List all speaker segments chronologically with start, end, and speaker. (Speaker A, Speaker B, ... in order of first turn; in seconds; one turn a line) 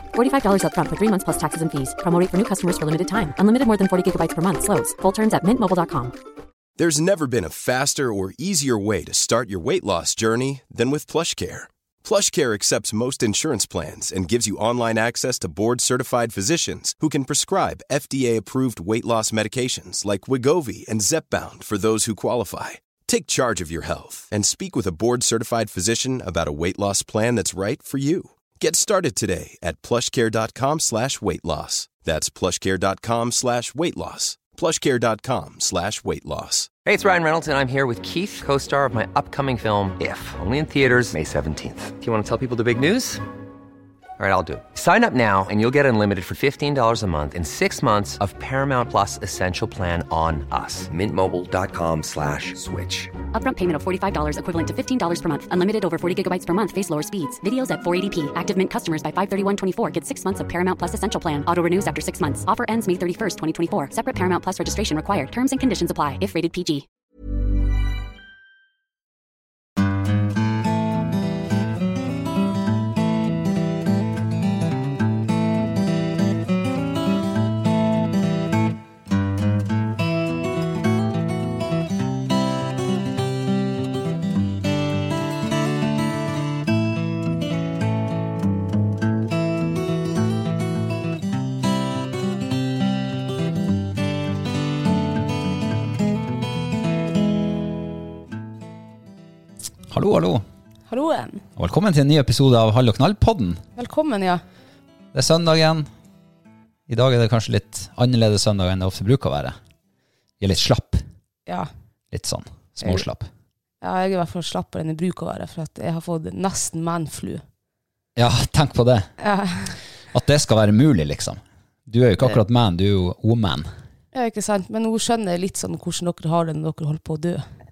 Speaker A: 0.1-6.2
Speaker B: 6.8-36.7
Speaker C: 36.9-43.2
Speaker C: 44.2-53.1
Speaker A: 53.4-66.9
Speaker D: 99.9-100.4
Speaker E: 100.9-101.4
Speaker D: 101.6-103.6
Speaker E: 103.8-104.4
Speaker D: 105.1-105.9
Speaker D: 106.9-109.6
Speaker D: 110.4-111.0
Speaker D: 112.1-113.3
Speaker E: 113.8-117.4
Speaker D: 118.2-119.1
Speaker E: 119.2-119.8
Speaker D: 120.1-123.7
Speaker E: 124.1-127.5